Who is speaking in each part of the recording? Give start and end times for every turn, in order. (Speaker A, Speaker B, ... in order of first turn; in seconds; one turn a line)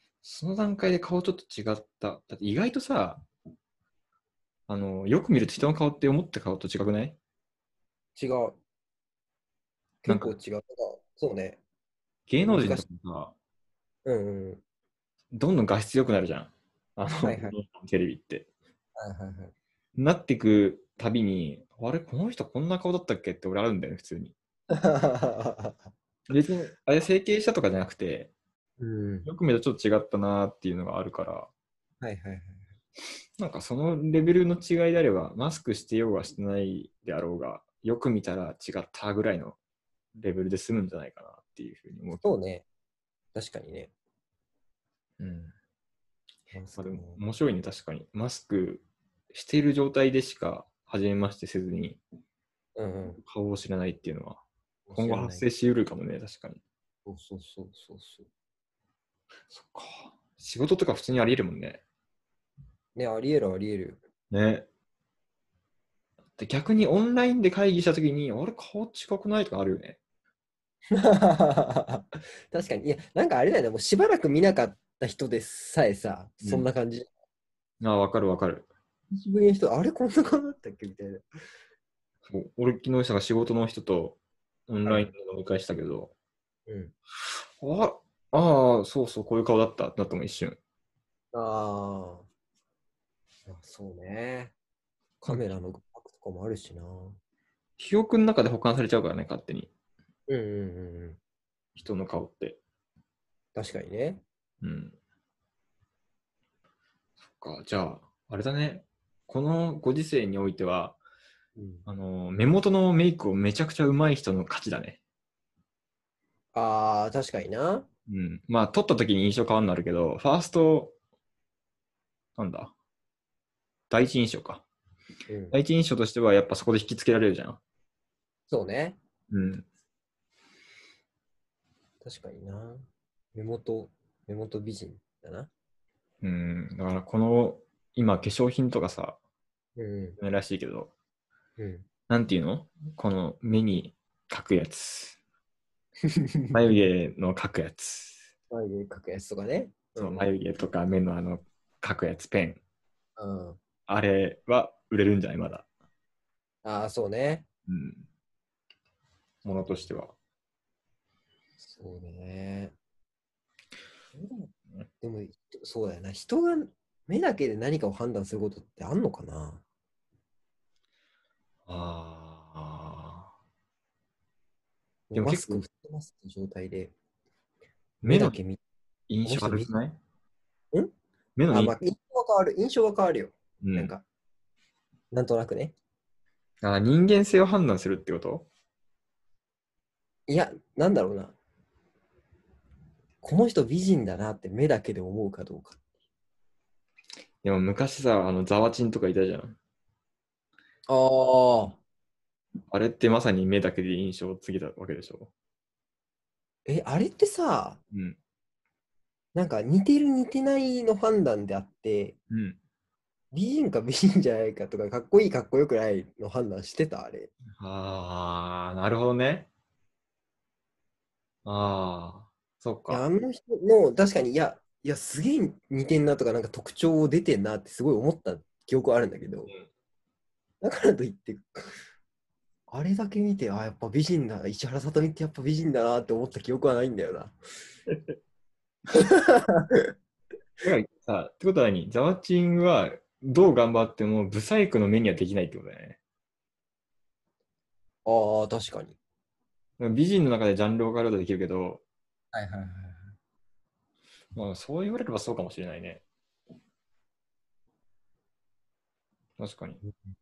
Speaker A: 0.2-3.2
Speaker A: 4.7-7.2
Speaker B: 8.2-8.6
Speaker A: 10.0-10.3
Speaker B: 10.1-11.6
Speaker A: 12.3-13.3
Speaker B: 12.4-12.8
Speaker B: 14.0-14.6
Speaker A: 15.3-18.5
Speaker B: 17.2-17.5
Speaker B: 19.0-19.5
Speaker A: 19.9-24.3
Speaker B: 24.7-25.9
Speaker A: 26.3-28.3
Speaker B: 28.8-29.3
Speaker A: 29.2-31.5
Speaker B: 32.0-32.7
Speaker A: 33.4-39.6
Speaker A: 40.1-42.3
Speaker B: 42.2-42.6
Speaker B: 43.3-43.9
Speaker A: 45.2-45.5
Speaker B: 46.5-47.2
Speaker A: 46.8-52.0
Speaker B: 52.8-53.2
Speaker A: 53.2-54.4
Speaker B: 54.9-55.5
Speaker A: 54.9-56.6
Speaker B: 57.0-58.3
Speaker A: 59.5-61.8
Speaker B: 62.9-64.0
Speaker A: 64.3-64.7
Speaker A: 66.4-70.0
Speaker B: 70.9-77.1
Speaker A: 76.4-76.7
Speaker A: 77.8-78.7
Speaker B: 79.1-81.2
Speaker A: 82.2-86.1
Speaker B: 84.8-85.1
Speaker B: 86.7-86.9
Speaker A: 87.6-90.6
Speaker B: 91.3-92.3
Speaker B: 93.5-94.5
Speaker B: 95.2-97.2
Speaker A: 97.8-99.7
Speaker B: 100.3-101.2
Speaker A: 101.7-102.6
Speaker B: 103.5-104.2
Speaker A: 104.6-105.0
Speaker A: 107.3-111.0
Speaker B: 111.6-111.8
Speaker A: 111.8-115.0
Speaker B: 116.5-117.9
Speaker A: 118.1-120.9
Speaker A: 122.4-122.7
Speaker A: 123.9-124.6
Speaker B: 125.3-125.5
Speaker A: 125.5-127.6
Speaker B: 128.5-129.0
Speaker A: 129.3-129.7
Speaker B: 132.0-135.5
Speaker A: 136.2-139.2
Speaker B: 139.8-140.2
Speaker A: 140.2-140.9
Speaker B: 141.6-141.9
Speaker A: 142.1-145.2
Speaker B: 146.1-146.6
Speaker A: 146.5-148.2
Speaker B: 148.5-150.3
Speaker A: 150.0-152.6
Speaker B: 153.2-153.6
Speaker A: 153.9-155.7
Speaker B: 156.6-157.4
Speaker A: 157.7-158.0
Speaker A: 159.4-160.1
Speaker B: 161.6-162.7
Speaker B: 164.1-169.6
Speaker A: 171.7-173.3
Speaker B: 175.1-176.9
Speaker A: 175.1-175.6
Speaker A: 178.0-178.3
Speaker B: 178.0-178.6
Speaker A: 179.1-180.0
Speaker B: 179.2-179.8
Speaker A: 181.3-181.8
Speaker B: 181.5-184.0
Speaker A: 183.6-183.9
Speaker B: 185.1-185.7
Speaker A: 186.6-188.5
Speaker B: 190.3-191.3
Speaker B: 193.2-195.8
Speaker A: 197.4-199.6
Speaker B: 200.9-201.8
Speaker A: 202.7-205.3
Speaker B: 206.7-207.8
Speaker A: 207.9-208.2
Speaker B: 209.3-212.2
Speaker A: 212.3-212.6
Speaker B: 213.3-217.3
Speaker A: 217.5-219.5
Speaker A: 221.4-223.0
Speaker B: 222.9-229.5
Speaker B: 230.6-231.8
Speaker B: 232.7-237.4
Speaker B: 238.9-239.9
Speaker A: 240.6-246.0
Speaker B: 248.1-249.0
Speaker A: 249.8-251.8
Speaker B: 252.3-253.1
Speaker A: 254.3-256.0
Speaker A: 259.4-259.8